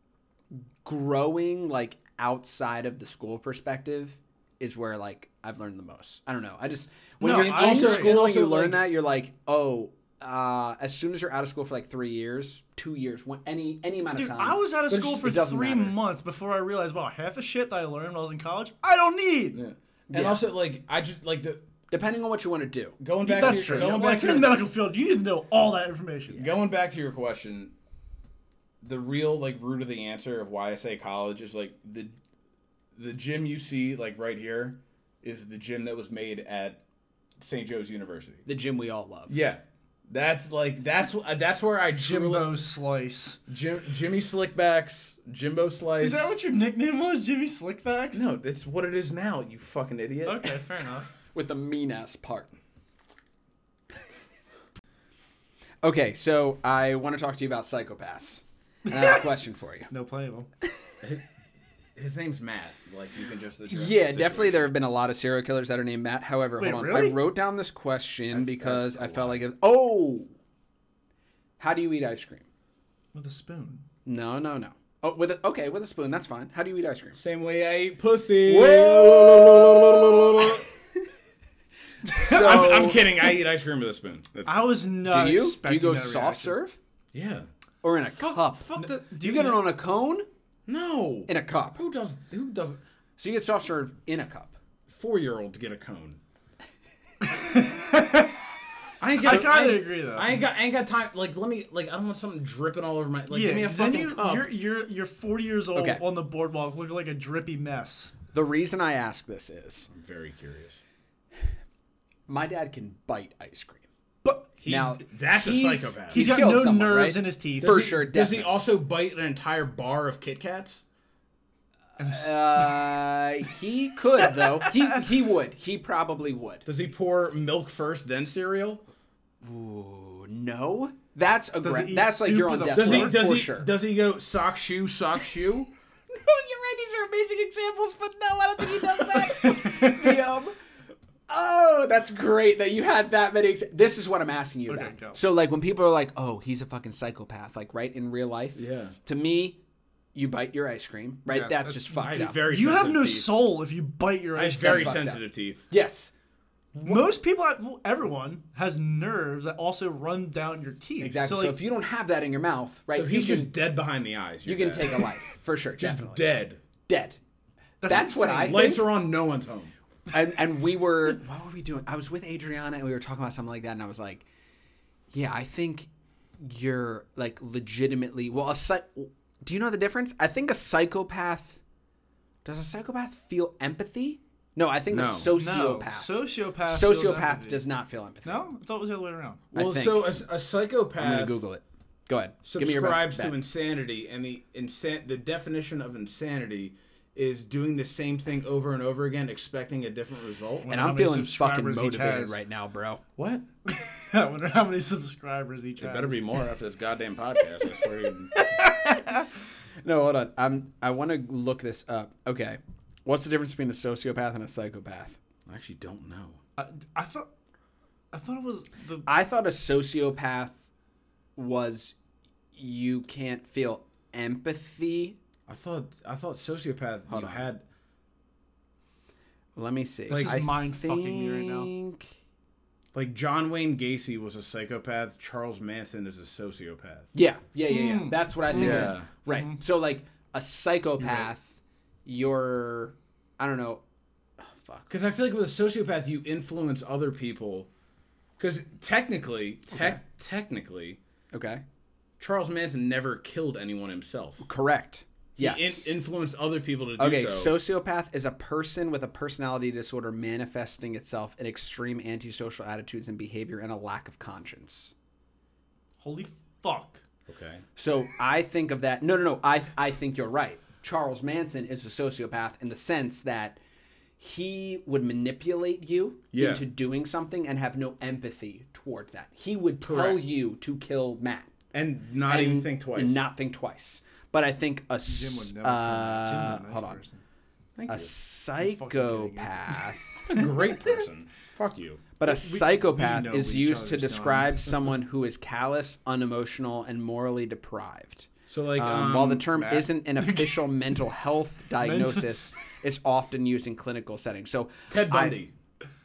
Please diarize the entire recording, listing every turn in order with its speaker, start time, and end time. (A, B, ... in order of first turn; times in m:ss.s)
0:00.8-0:16.0 A
0:07.2-0:08.2 B
0:07.2-0:08.9 C
0:14.2-0:19.6 B
0:19.5-0:21.6 C
0:20.1-0:20.4 A
0:21.9-0:24.0 A
0:23.0-0:24.6 C
0:23.2-0:26.4 B
0:26.3-0:27.7 C
0:28.8-0:32.1 C
0:33.0-0:36.8 C
0:37.4-0:38.4 C
0:38.4-0:39.3 A
0:39.3-0:42.5 C
0:42.0-0:43.4 B
0:43.5-0:46.3 C
0:46.0-0:48.3 B
0:48.1-0:50.6 C
0:50.2-0:51.1 B
0:51.3-0:52.5 A
0:55.8-0:59.9 A
0:58.9-0:59.2 B
0:59.9-1:00.5 B
1:02.0-1:04.7 C
1:03.7-1:10.3 A
1:06.6-1:07.2 B
1:08.3-1:09.4 C
1:11.6-1:12.4 A
1:13.1-1:13.8 B
1:14.0-1:17.2 A
1:17.2-1:20.7 C
1:18.4-1:20.6 A
1:22.1-1:23.1 B
1:22.1-1:23.0 A
1:22.2-1:24.7 C
1:24.4-1:26.6 B
1:25.0-1:26.8 A
1:27.1-1:27.4 C
1:27.8-1:30.3 A
1:28.2-1:29.0 C
1:28.8-1:29.6 B
1:30.7-1:32.8 C
1:31.3-1:31.8 A
1:33.2-1:34.5 A
1:34.9-1:36.2 C
1:37.2-1:38.4 B
1:39.0-1:44.5 C
1:39.2-1:40.3 B
1:43.3-1:48.1 B
1:45.7-1:46.0 A
1:48.3-1:49.9 A
1:49.9-1:50.8 C
1:52.3-1:53.8 A
1:54.2-1:55.0 B
1:54.6-1:56.2 C
1:54.6-1:58.5 A
1:56.0-1:57.8 B
1:57.6-2:00.8 C
2:02.0-2:03.1 B
2:02.0-2:06.6 A
2:04.2-2:05.0 B
2:06.6-2:08.8 C
2:09.4-2:13.7 A
2:11.6-2:13.2 B
2:12.7-2:15.7 C
2:16.1-2:20.6 A
2:18.9-2:20.2 B
2:21.3-2:29.6 A
2:24.7-2:25.2 B
2:28.5-2:28.9 C
2:30.1-2:32.4 A
2:31.3-2:35.0 B
2:32.0-2:33.3 C
2:34.4-2:35.7 C
2:34.6-2:36.1 A
2:36.7-2:37.1 A
2:36.8-2:41.6 B
2:41.0-2:43.5 A
2:42.9-2:45.1 C
2:44.4-2:46.2 A
2:45.8-2:46.6 C
2:46.9-2:47.2 A
2:47.8-2:48.8 B
2:47.8-2:48.8 A
2:48.2-2:49.7 C
2:50.1-2:54.2 A
2:55.1-2:55.9 A
2:56.4-3:01.6 A
3:02.4-3:08.4 A
3:04.9-3:05.3 C
3:05.3-3:07.6 B
3:08.2-3:09.4 B
3:09.5-3:10.2 A
3:09.5-3:11.4 C
3:11.0-3:13.3 A
3:12.4-3:20.7 C
3:20.6-3:22.4 B
3:20.6-3:23.0 A
3:23.2-3:23.4 C
3:23.6-3:26.4 B
3:25.8-3:28.3 C
3:28.3-3:35.2 A
3:35.5-3:36.4 C
3:36.6-3:37.3 B
3:38.1-3:39.1 B
3:39.0-3:40.6 A
3:41.4-3:41.9 A
3:42.5-3:45.2 A
3:45.5-3:47.6 C
3:47.1-3:47.4 A
3:49.6-3:52.1 A
3:50.1-3:50.4 C
3:50.1-3:51.7 B
3:52.9-3:57.1 C
3:57.1-4:03.8 A
3:57.7-3:59.6 B
3:58.5-3:59.1 C
4:04.4-4:04.9 A
4:04.9-4:07.7 C
4:08.4-4:11.0 C
4:09.7-4:10.0 A
4:11.3-4:11.6 A
4:12.2-4:14.4 C
4:14.4-4:15.9 A
4:15.4-4:17.6 C
4:17.0-4:24.9 A
4:26.0-4:27.0 B
4:27.3-4:27.6 C
4:27.8-4:33.6 A
4:34.2-4:41.5 A
4:36.3-4:36.6 C
4:39.8-4:40.2 C
4:41.7-4:43.2 C
4:42.3-4:47.0 A
4:45.0-4:47.2 B
4:47.8-4:48.1 C
4:47.9-4:50.5 A
4:48.6-4:50.4 B
4:50.3-4:52.0 C
4:52.2-5:05.4 A
4:52.2-4:54.9 B
4:58.5-4:59.5 C
4:59.5-5:01.0 B
5:01.7-5:02.4 B
5:04.9-5:05.5 C